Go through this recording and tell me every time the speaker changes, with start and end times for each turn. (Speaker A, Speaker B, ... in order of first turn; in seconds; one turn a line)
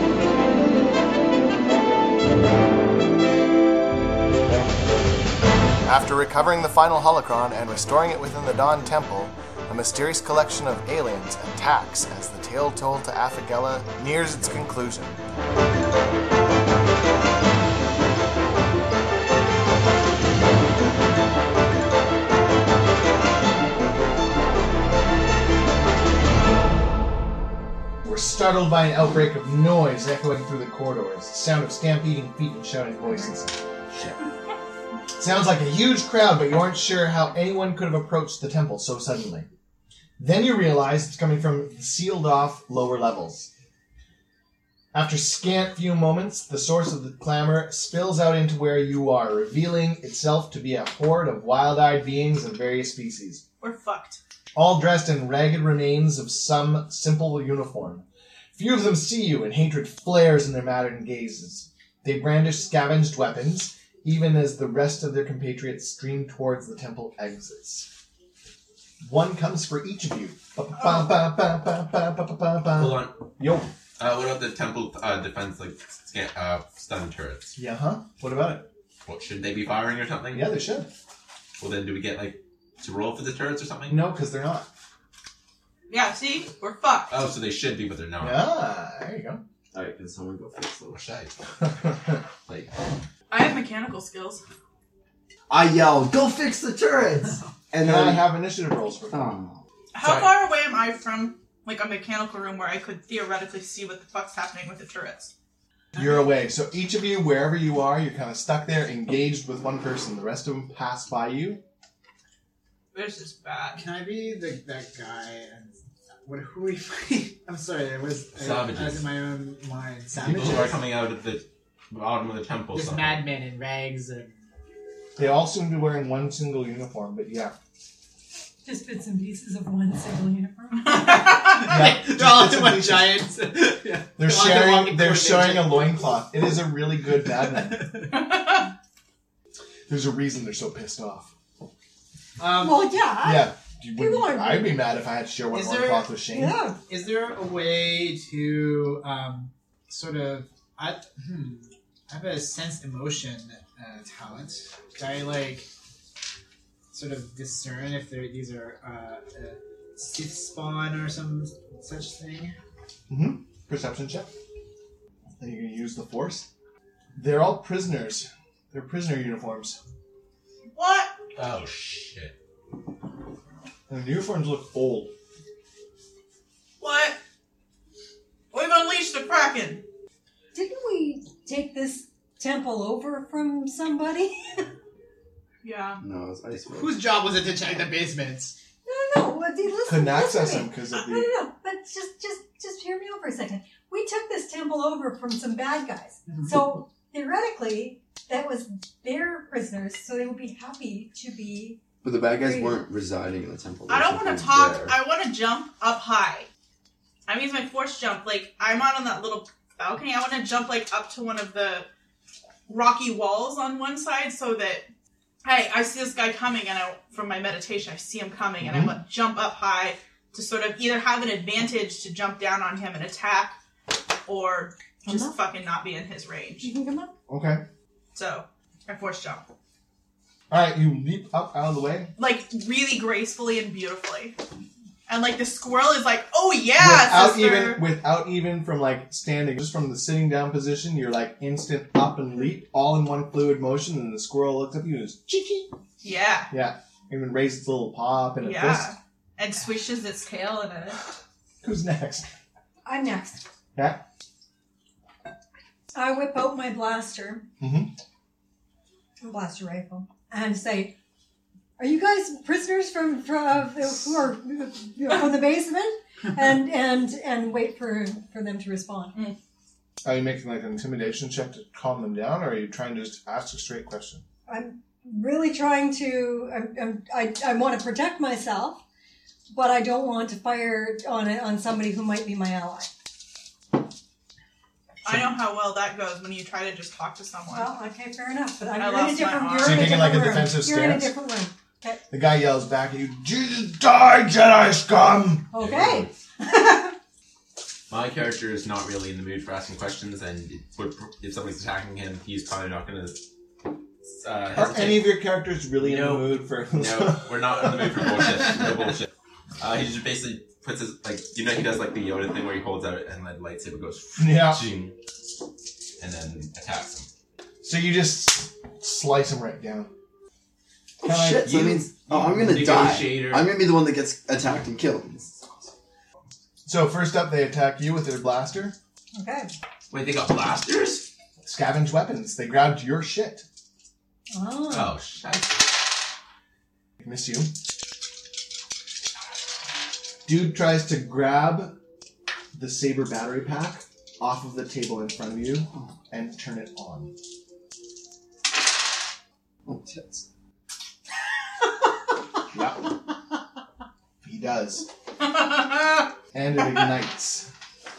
Speaker A: 5.8-15.2
Speaker A: 28.0-33.6
Speaker B: 33.1-33.3
Speaker A: 35.2-39.5
Speaker A: 40.2-43.5
Speaker A: 44.9-53.4
Speaker C: 53.6-54.2
Speaker A: 54.5-58.0
Speaker A: 58.5-67.9
Speaker A: 69.0-73.7
Speaker D: 72.8-73.2
Speaker D: 74.0-77.5
Speaker A: 77.5-78.6
Speaker D: 79.0-80.5
Speaker A: 80.3-80.9
Speaker D: 81.6-84.0
Speaker A: 83.9-84.7
Speaker C: 85.9-87.2
Speaker D: 87.1-88.4
Speaker A: 88.2-89.4
Speaker E: 89.7-91.0
Speaker D: 90.9-91.3
Speaker A: 91.6-92.2
Speaker C: 93.3-94.4
Speaker E: 95.5-98.3
Speaker A: 97.8-99.4
Speaker E: 99.1-99.6
Speaker C: 99.9-105.3
Speaker D: 100.0-100.3
Speaker A: 106.0-111.6
Speaker F: 106.0-106.2
Speaker C: 112.9-113.8
Speaker F: 113.8-120.8
Speaker D: 118.3-119.0
Speaker D: 120.2-123.2
Speaker A: 120.2-120.8
Speaker F: 122.7-124.5
Speaker A: 125.2-127.5
Speaker B: 128.6-131.2
Speaker C: 130.8-131.6
Speaker F: 131.4-136.1
Speaker A: 131.6-133.2
Speaker A: 134.2-137.8
Speaker F: 137.2-138.2
Speaker C: 138.1-138.7
Speaker A: 139.9-141.3
Speaker F: 142.4-142.9
Speaker B: 142.6-144.9
Speaker A: 143.2-146.6
Speaker F: 145.5-146.1
Speaker B: 146.3-146.8
Speaker F: 146.9-155.7
Speaker F: 156.9-162.6
Speaker A: 163.1-164.3
Speaker A: 165.4-166.5
Speaker A: 167.2-169.8
Speaker C: 170.7-171.1
Speaker D: 171.3-172.3
Speaker A: 173.9-175.1
Speaker C: 176.8-177.2
Speaker C: 178.5-179.8
Speaker B: 180.5-184.6
Speaker C: 185.6-186.0
Speaker E: 186.0-187.0
Speaker F: 186.7-188.5
Speaker B: 188.8-202.8
Speaker A: 189.8-191.3
Speaker E: 202.0-205.0
Speaker C: 203.9-206.5
Speaker C: 207.3-211.9
Speaker C: 212.7-214.8
Speaker C: 215.4-223.6
Speaker A: 218.6-218.9
Speaker C: 224.3-226.7
Speaker B: 225.1-225.3
Speaker B: 226.6-227.1
Speaker A: 227.3-227.6
Speaker C: 228.1-229.4
Speaker A: 230.5-232.1
Speaker C: 232.2-234.3
Speaker C: 235.1-237.8
Speaker A: 236.8-245.7
Speaker C: 246.0-246.5
Speaker A: 246.5-248.9
Speaker C: 248.4-251.0
Speaker A: 251.6-252.2
Speaker B: 252.8-253.4
Speaker A: 253.7-254.0
Speaker B: 255.9-257.5
Speaker A: 257.6-257.9
Speaker B: 259.2-260.9
Speaker B: 261.8-269.1
Speaker A: 270.0-274.2
Speaker B: 274.5-278.8
Speaker B: 279.5-282.9
Speaker C: 285.0-287.7
Speaker B: 287.5-292.0
Speaker C: 288.8-290.1
Speaker A: 289.6-291.1
Speaker A: 292.1-295.5
Speaker B: 295.5-296.9
Speaker D: 295.6-296.1
Speaker D: 297.9-303.2
Speaker D: 304.1-305.1
Speaker A: 304.5-307.9
Speaker D: 305.8-314.9
Speaker A: 314.2-314.6
Speaker D: 316.0-317.1
Speaker A: 317.6-319.9
Speaker E: 321.0-325.7
Speaker A: 321.0-321.5
Speaker D: 321.4-323.5
Speaker A: 326.6-328.8
Speaker B: 329.1-329.5
Speaker D: 329.9-331.1
Speaker A: 331.4-333.4
Speaker B: 334.3-335.0
Speaker D: 334.7-335.7
Speaker A: 337.0-337.5
Speaker A: 340.2-341.7
Speaker A: 342.5-347.1
Speaker E: 349.6-350.2
Speaker A: 352.5-352.8
Speaker A: 354.2-354.9
Speaker C: 355.3-355.9
Speaker A: 356.3-357.5